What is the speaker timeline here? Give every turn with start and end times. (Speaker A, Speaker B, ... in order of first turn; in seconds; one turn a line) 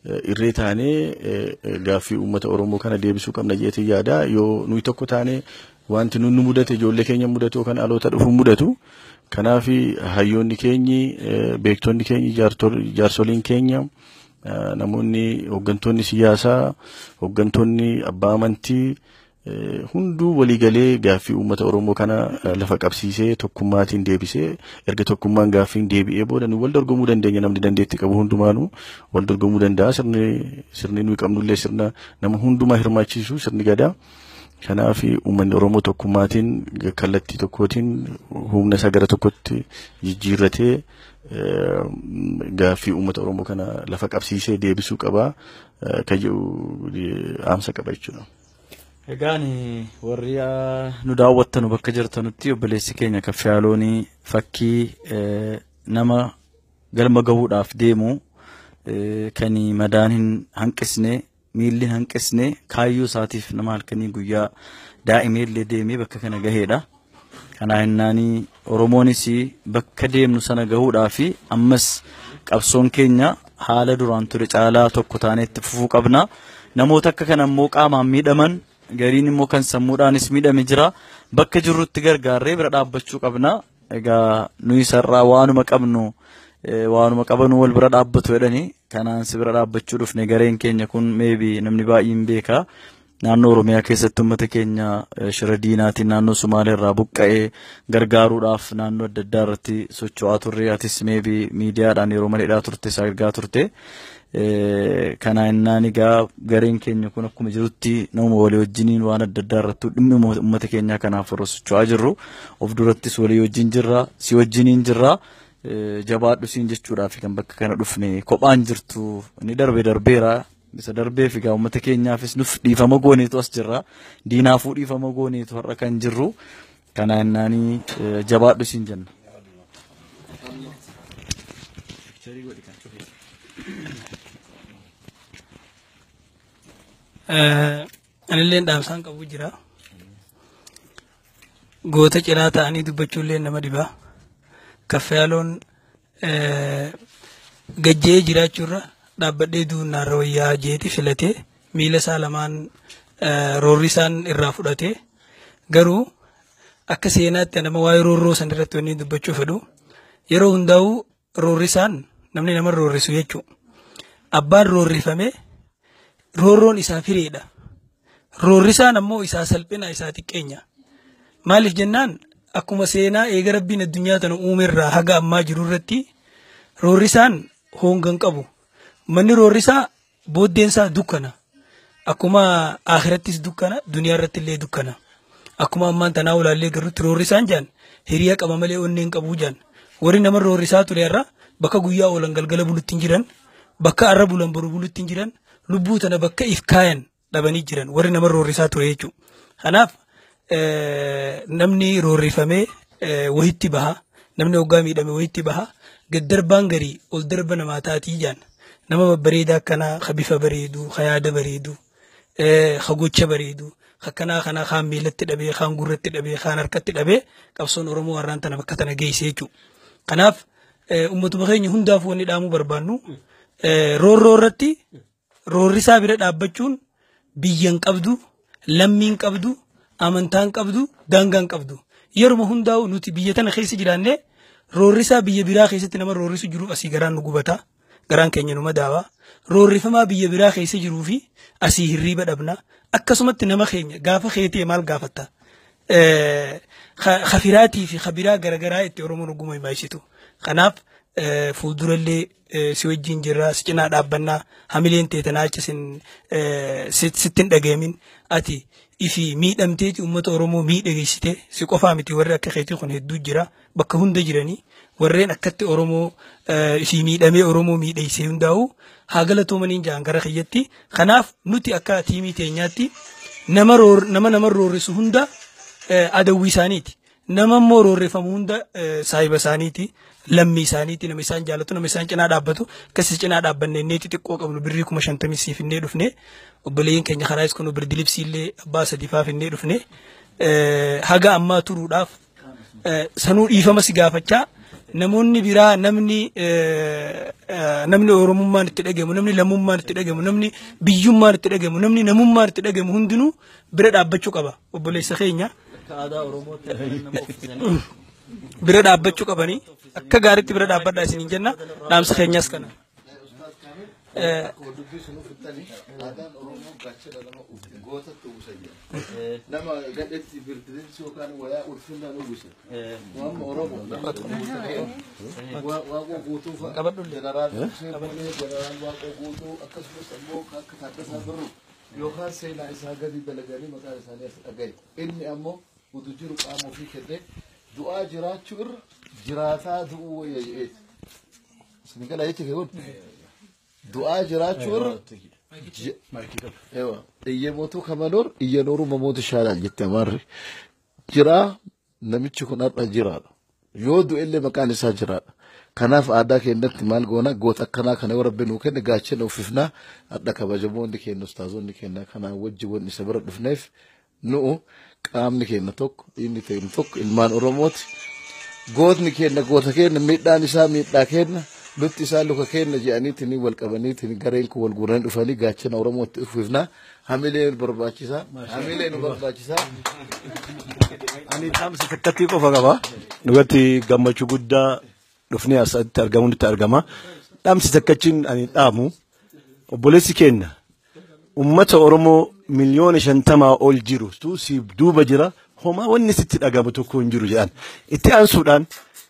Speaker A: 0.2-8.8
Speaker A: 9.3-13.9
Speaker A: 14.5-33.9
Speaker A: 34.6-45.3
Speaker A: 45.9-48.3
Speaker B: 49.1-56.3
Speaker B: 56.9-58.2
Speaker B: 58.9-64.5
Speaker B: 65.1-66.8
Speaker B: 67.6-86.1
Speaker B: 86.7-92.7
Speaker B: 93.2-103.7
Speaker B: 104.3-126.3
Speaker B: 126.9-129.1
Speaker C: 137.3-139.5
Speaker C: 141.9-143.9
Speaker C: 144.9-145.6
Speaker C: 146.2-146.9
Speaker C: 147.8-152.7
Speaker C: 153.2-154.9
Speaker C: 155.7-156.0
Speaker C: 156.9-159.6
Speaker C: 160.3-163.4
Speaker C: 164.3-165.3
Speaker C: 166.4-167.4
Speaker C: 168.4-170.6
Speaker C: 171.4-176.0
Speaker C: 176.8-178.5
Speaker C: 179.1-181.3
Speaker C: 182.1-185.0
Speaker C: 185.6-193.2
Speaker C: 193.8-199.9
Speaker C: 200.5-211.8
Speaker C: 212.4-219.5
Speaker C: 220.1-220.4
Speaker C: 220.9-223.0
Speaker C: 223.6-224.8
Speaker C: 225.5-226.8
Speaker C: 227.4-228.2
Speaker C: 228.8-234.2
Speaker C: 234.8-245.3
Speaker C: 245.9-272.9
Speaker C: 273.5-275.3
Speaker C: 275.9-286.1
Speaker C: 286.6-289.8
Speaker C: 290.4-292.1
Speaker C: 292.8-305.5
Speaker B: 305.7-307.7
Speaker C: 308.6-312.7
Speaker B: 308.7-312.6
Speaker D: 313.1-322.6
Speaker C: 314.1-314.5
Speaker B: 322.7-323.1
Speaker D: 323.1-340.8
Speaker C: 324.1-324.8
Speaker C: 326.7-327.2
Speaker E: 327.5-327.8
Speaker C: 327.9-328.3
Speaker D: 341.8-343.0
Speaker D: 343.9-345.0
Speaker E: 344.8-345.2
Speaker D: 345.6-346.0
Speaker D: 346.7-350.2
Speaker D: 351.1-355.2
Speaker D: 355.8-363.7
Speaker D: 364.2-367.9
Speaker D: 368.7-379.7
Speaker E: 381.3-386.8
Speaker E: 387.4-388.9
Speaker E: 389.7-390.5
Speaker E: 391.4-398.7